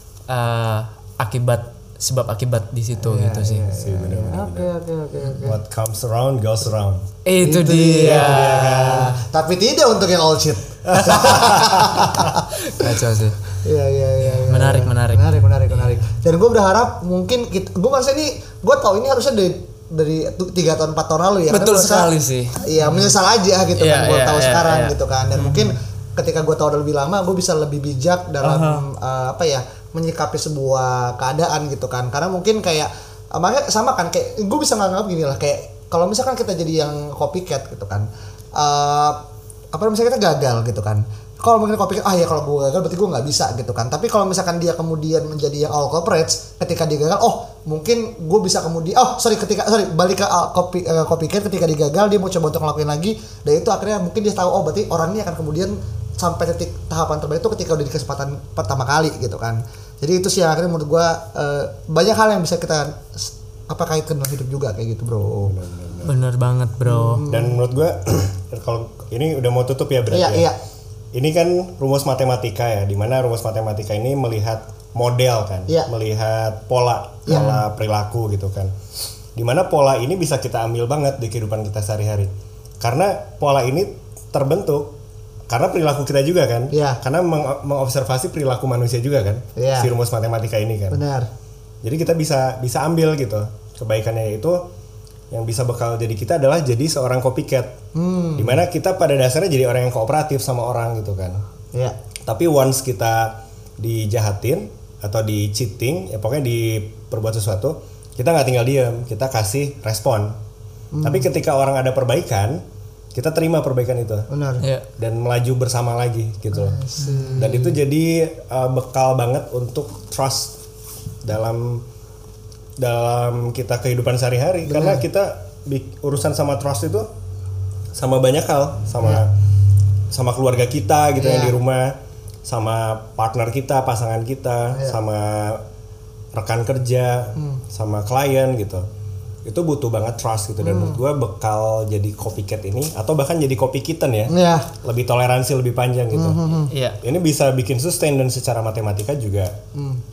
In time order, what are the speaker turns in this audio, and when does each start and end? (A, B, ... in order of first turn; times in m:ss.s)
0:00.3-0:03.7 A
0:03.0-0:05.6 B
0:03.7-0:04.7 C
0:05.4-0:07.0 C
0:07.2-0:09.0 A
0:07.4-0:12.9 B
0:08.0-0:09.1 C
0:10.8-0:12.3 C
0:12.5-0:13.4 A
0:13.6-0:22.1 B
0:14.2-0:16.0 A
0:21.5-0:23.1 A
0:22.6-0:39.2 B
0:23.8-0:25.8 A
0:28.4-0:28.8 A
0:39.7-1:05.5 B
1:05.5-1:06.1 C
1:06.0-1:07.2 A
1:06.8-1:07.6 B
1:07.2-1:10.5 C
1:10.1-1:10.6 B
1:11.1-1:18.7 C
1:17.2-1:17.6 B
1:19.4-1:22.3 C
1:22.8-1:24.9 C
1:25.5-1:31.0 C
1:26.7-1:27.0 B
1:29.6-1:29.9 B
1:30.9-1:31.3 B
1:31.8-1:34.6 C
1:35.3-1:37.8 C
1:37.9-1:38.6 B
1:38.4-1:41.4 C
1:42.2-1:50.4 C
1:50.9-1:51.2 B
1:51.0-1:52.6 C
1:53.1-1:54.3 C
1:54.3-1:54.6 B
1:55.0-1:56.8 C
1:56.5-1:57.7 B
1:57.0-1:57.6 A
1:57.4-2:00.5 C
2:01.2-2:01.8 C
2:02.8-2:07.1 C
2:04.7-2:05.0 B
2:07.9-2:09.3 C
2:10.1-2:15.6 C
2:11.2-2:11.5 B
2:16.3-2:18.9 C
2:19.4-2:29.6 C
2:20.6-2:21.0 B
2:24.3-2:24.7 B
2:26.1-2:26.7 B
2:26.7-2:27.0 A
2:29.7-2:30.0 B